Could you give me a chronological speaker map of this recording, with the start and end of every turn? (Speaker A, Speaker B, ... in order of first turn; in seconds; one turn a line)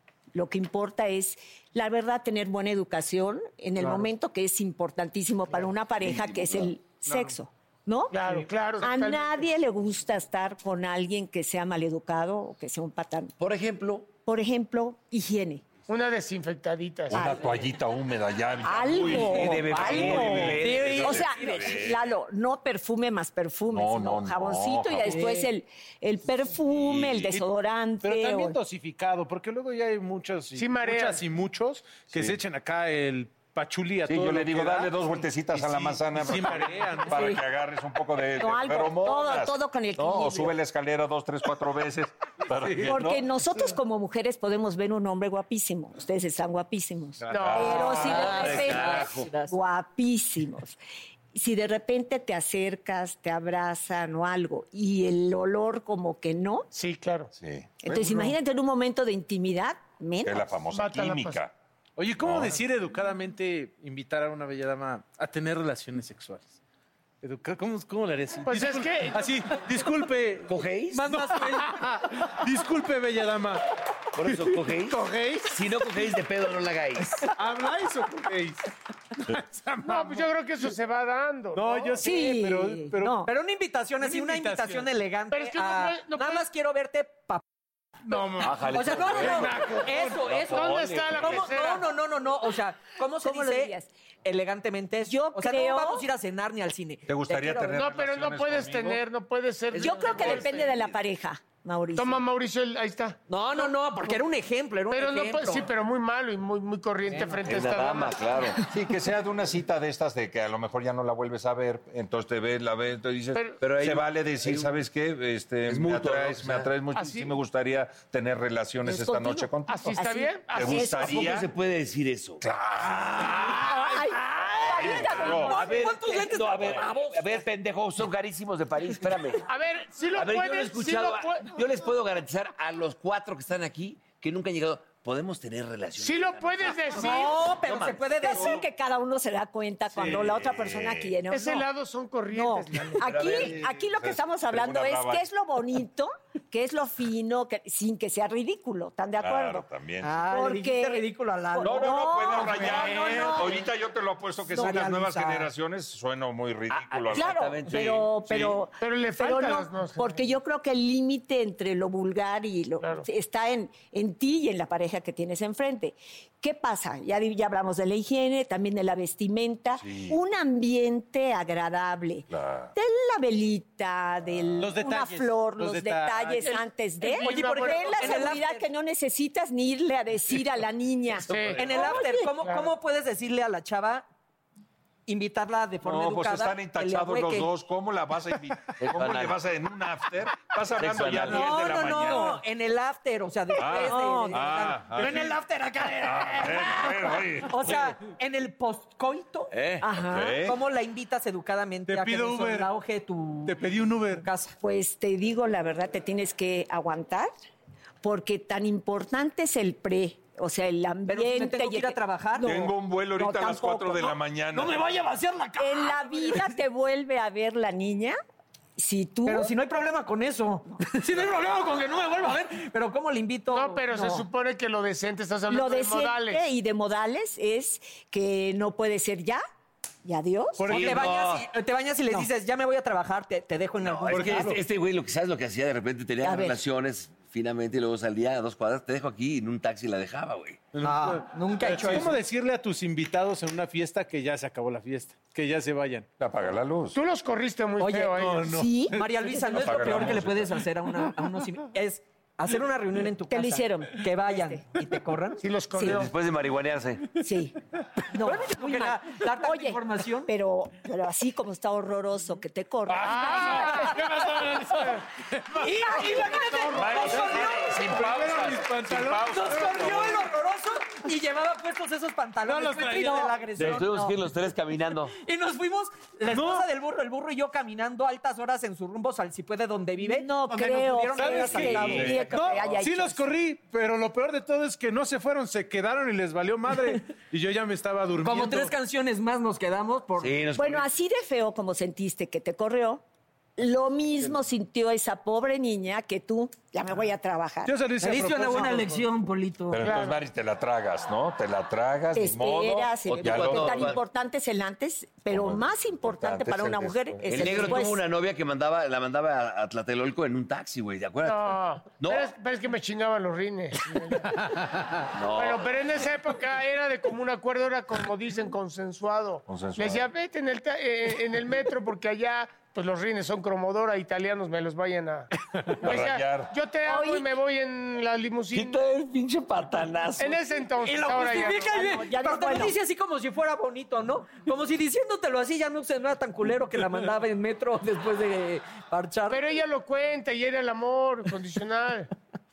Speaker A: 0.3-13.3
Speaker B: 6.0-6.7
Speaker C: 8.1-9.5
Speaker B: 13.4-14.1
Speaker A: 14.1-15.6
Speaker C: 15.9-17.2
Speaker D: 17.1-22.1
Speaker A: 17.1-17.6
Speaker A: 18.6-28.6
Speaker B: 19.3-21.2
Speaker E: 20.4-21.9
Speaker D: 23.7-25.2
Speaker E: 25.0-25.5
Speaker D: 26.7-27.4
Speaker F: 28.0-37.4
Speaker C: 30.5-31.2
Speaker D: 32.1-32.4
Speaker D: 34.0-43.2
Speaker A: 38.4-40.5
Speaker F: 42.5-43.0
Speaker A: 42.9-50.8
Speaker F: 47.3-48.0
Speaker D: 47.3-48.8
Speaker C: 47.3-47.7
Speaker E: 48.0-49.5
Speaker B: 48.0-49.3
Speaker A: 51.3-56.7
Speaker C: 56.7-57.3
Speaker D: 57.4-58.3
Speaker A: 57.8-60.5
Speaker D: 60.2-61.5
Speaker C: 60.7-61.4
Speaker F: 62.0-66.6
Speaker D: 62.2-62.6
Speaker F: 67.2-73.6
Speaker C: 68.5-69.2
Speaker B: 70.5-71.1
Speaker E: 70.9-71.8
Speaker B: 74.1-77.2
Speaker F: 74.2-75.6
Speaker F: 77.3-78.6
Speaker F: 79.3-80.3
Speaker C: 79.8-82.0
Speaker F: 81.5-83.2
Speaker A: 82.0-83.3
Speaker E: 83.2-87.4
Speaker F: 84.0-84.9
Speaker C: 85.3-86.4
Speaker C: 88.1-88.4
Speaker F: 88.1-89.6
Speaker B: 88.4-89.7
Speaker E: 88.6-97.8
Speaker C: 89.3-91.9
Speaker B: 90.2-91.4
Speaker A: 93.2-93.9
Speaker A: 95.0-96.0
Speaker D: 97.1-99.0
Speaker C: 97.7-100.5
Speaker A: 99.7-102.2
Speaker D: 100.1-100.5
Speaker B: 100.6-100.9
Speaker C: 102.0-103.2
Speaker E: 103.3-105.7
Speaker C: 104.9-108.3
Speaker B: 107.4-108.6
Speaker D: 108.6-120.0
Speaker C: 113.3-113.6
Speaker B: 113.6-114.7
Speaker B: 115.7-116.7
Speaker C: 116.9-117.3
Speaker A: 118.8-121.2
Speaker C: 119.7-121.0
Speaker D: 120.5-121.5
Speaker B: 121.0-122.4
Speaker D: 122.4-123.4
Speaker A: 123.5-125.8
Speaker D: 124.7-125.6
Speaker E: 124.8-127.4
Speaker B: 125.5-129.4
Speaker C: 129.5-131.6
Speaker B: 130.1-136.8
Speaker C: 136.0-137.4
Speaker E: 136.9-138.6
Speaker A: 136.9-137.3
Speaker B: 137.6-138.0
Speaker A: 138.1-141.7
Speaker D: 138.3-138.6
Speaker D: 139.9-141.2
Speaker C: 141.3-143.2
Speaker A: 142.3-153.6
Speaker D: 143.0-145.2
Speaker D: 149.2-150.2
Speaker E: 150.0-153.5
Speaker D: 151.6-158.6
Speaker E: 154.5-155.5
Speaker A: 154.5-154.9
Speaker B: 156.7-158.1
Speaker A: 157.1-182.3
Speaker C: 158.8-160.2
Speaker C: 162.8-163.1
Speaker D: 169.8-170.2
Speaker D: 172.3-172.7
Speaker F: 174.6-176.6
Speaker C: 177.0-178.3
Speaker E: 177.1-178.7
Speaker C: 181.3-181.8
Speaker E: 181.6-184.0
Speaker C: 182.4-182.7
Speaker E: 185.1-187.5
Speaker D: 185.8-192.4
Speaker B: 188.8-189.3
Speaker B: 190.8-191.4
Speaker E: 191.1-196.9
Speaker D: 193.6-195.4
Speaker A: 193.7-194.6
Speaker F: 195.0-195.3
Speaker D: 196.0-197.9
Speaker E: 197.5-199.5
Speaker B: 199.5-199.8
Speaker A: 199.8-200.4
Speaker D: 200.0-200.5
Speaker E: 200.4-204.5
Speaker F: 201.9-202.7
Speaker F: 203.4-204.3
Speaker A: 204.6-207.3
Speaker A: 208.0-214.2
Speaker E: 211.1-212.5
Speaker D: 212.4-214.8
Speaker E: 214.5-216.5
Speaker A: 215.6-218.2
Speaker A: 218.8-219.5
Speaker E: 219.2-223.9
Speaker C: 223.5-226.4
Speaker A: 223.9-224.2
Speaker A: 225.5-229.4
Speaker A: 230.0-230.8
Speaker F: 230.6-231.2
Speaker B: 230.7-231.4
Speaker E: 230.7-234.6
Speaker B: 233.8-240.6
Speaker F: 234.1-234.6
Speaker A: 236.2-236.6
Speaker F: 240.7-246.1
Speaker E: 240.8-242.2
Speaker D: 246.2-247.0
Speaker C: 246.9-248.4
Speaker E: 247.8-248.1
Speaker F: 248.1-248.8
Speaker A: 248.4-250.2
Speaker E: 248.9-255.4
Speaker D: 249.6-250.5
Speaker A: 253.3-254.6
Speaker C: 255.4-256.1
Speaker B: 255.8-257.1
Speaker A: 257.1-257.6
Speaker A: 258.1-263.9
Speaker E: 258.2-260.3
Speaker F: 262.9-270.2
Speaker C: 263.1-263.9
Speaker E: 263.3-263.9
Speaker E: 265.6-267.7
Speaker A: 265.9-266.8
Speaker D: 266.8-270.2
Speaker E: 269.3-274.1
Speaker F: 272.4-273.7
Speaker A: 272.9-274.1
Speaker B: 273.6-275.1
Speaker E: 275.2-282.3
Speaker F: 276.3-276.7
Speaker A: 280.0-283.3
Speaker F: 281.1-288.7
Speaker D: 281.6-282.4
Speaker E: 288.2-290.4
Speaker B: 290.2-290.8
Speaker A: 290.5-293.0
Speaker A: 293.6-297.8
Speaker F: 297.6-299.1
Speaker E: 298.0-299.9
Speaker D: 299.7-304.0
Speaker C: 299.8-300.2
Speaker A: 302.1-308.0
Speaker B: 303.2-303.9
Speaker D: 305.3-307.7
Speaker B: 307.3-312.3
Speaker C: 311.2-314.3
Speaker B: 315.1-315.8
Speaker C: 315.3-325.3
Speaker D: 319.5-320.1
Speaker C: 325.8-328.8
Speaker D: 325.8-326.5
Speaker A: 326.9-327.3
Speaker B: 328.5-330.4
Speaker C: 330.2-331.7
Speaker E: 330.8-339.5
Speaker A: 331.6-332.7
Speaker C: 339.3-342.1